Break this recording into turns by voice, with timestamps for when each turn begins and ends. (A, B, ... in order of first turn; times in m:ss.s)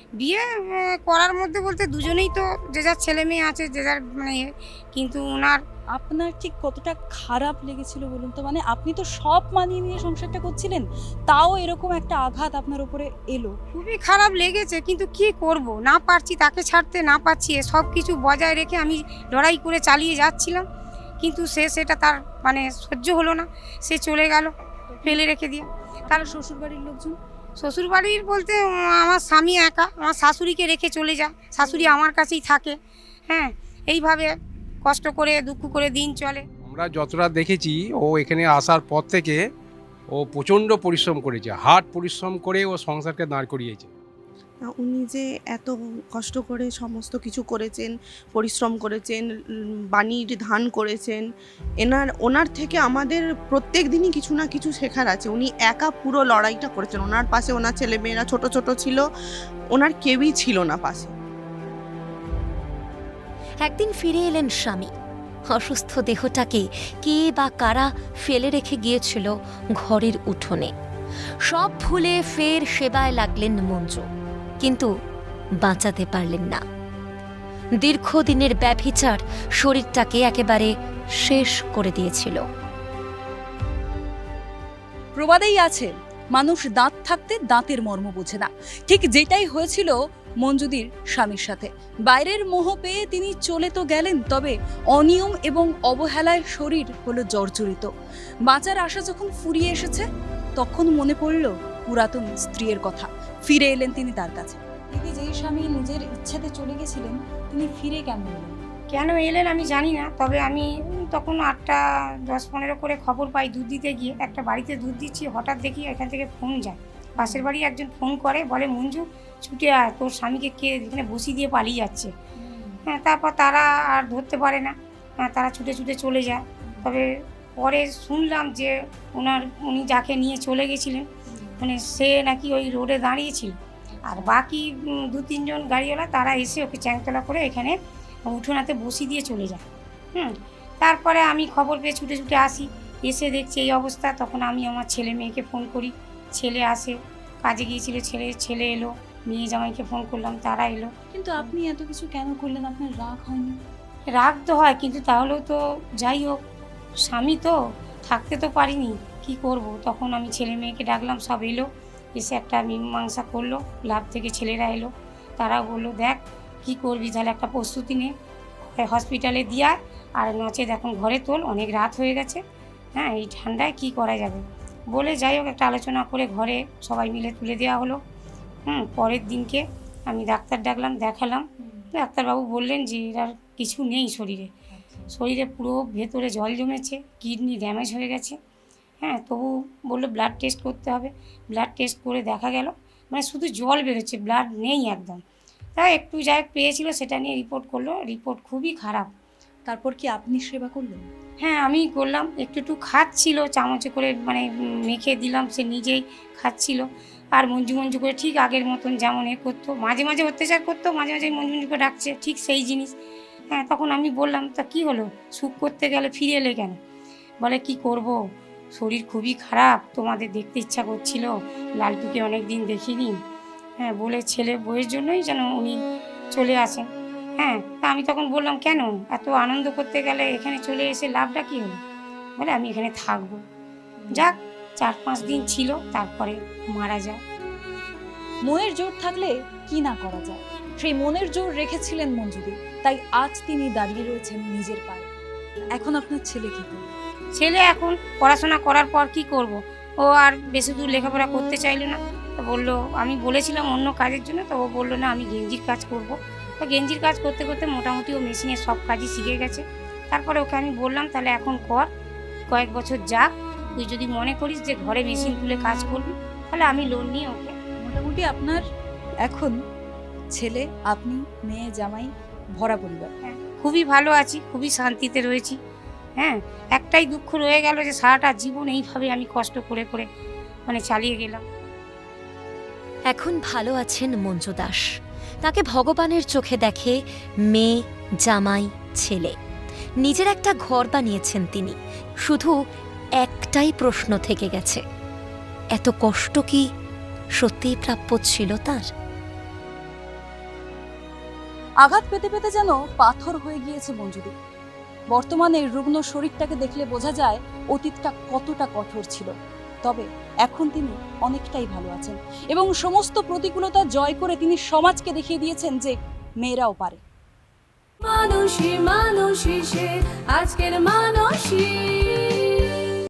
0:00.2-0:05.6 A
0:05.9-0:13.6 B
0:13.7-0:20.6 A
0:21.2-0:24.5 A
0:24.9-0:25.2 B
0:25.0-0:26.3 A
0:26.1-0:27.2 B
0:27.6-0:32.8 A
0:31.6-0:32.0 B
0:33.3-0:34.3 A
0:34.9-0:36.4 A
0:36.6-0:39.5 C
0:40.1-0:43.9 C
0:44.7-0:49.2 D
0:50.0-0:51.2 D
0:51.8-0:59.0 D
0:59.7-1:01.1 D
1:03.6-1:04.9 E
1:05.5-1:10.7 E
1:11.4-1:14.1 E
1:14.6-1:14.9 E
1:15.6-1:16.6 E
1:17.8-1:22.4 E
1:25.2-1:37.9 B
1:38.5-1:48.6 B
1:48.9-2:02.1 A
1:57.2-1:57.5 B
2:02.4-2:02.8 B
2:02.9-2:11.1 A
2:11.3-2:11.6 B
2:11.6-2:13.5 A
2:14.0-2:14.3 B
2:14.1-2:31.5 A
2:31.1-2:33.6 B
2:34.2-2:36.4 A
2:37.1-2:37.6 A
2:38.1-2:48.1 A
2:48.8-2:52.4 A
2:53.0-2:58.0 A
2:58.7-3:04.5 A
3:04.8-3:05.1 B
3:05.1-3:08.4 A
3:09.0-3:15.2 A
3:15.8-3:19.1 A
3:19.7-3:21.1 B
3:21.4-3:32.9 A
3:33.5-3:36.8 A
3:37.4-3:38.2 A
3:38.7-3:43.2 A
3:43.8-3:45.8 A
3:46.3-3:46.9 A
3:47.4-3:51.8 A
3:52.4-3:53.4 A
3:54.0-3:54.4 B
3:54.1-3:57.2 A
3:58.5-4:05.1 B
4:05.8-4:06.9 B
4:07.4-4:21.9 A
4:22.5-4:27.5 A
4:27.8-4:28.6 B
4:29.2-4:29.6 B
4:30.3-4:33.1 B
4:33.2-4:35.6 A
4:36.2-4:40.1 A
4:40.7-4:41.4 A
4:43.1-4:44.9 E
4:45.4-4:49.4 E
4:50.0-4:52.6 E
4:53.2-4:54.8 E
4:55.8-4:56.7 E
4:57.4-4:58.9 E
5:01.8-5:04.3 B
5:05.1-5:09.3 B
5:09.8-5:17.0 B
5:18.0-5:22.8 F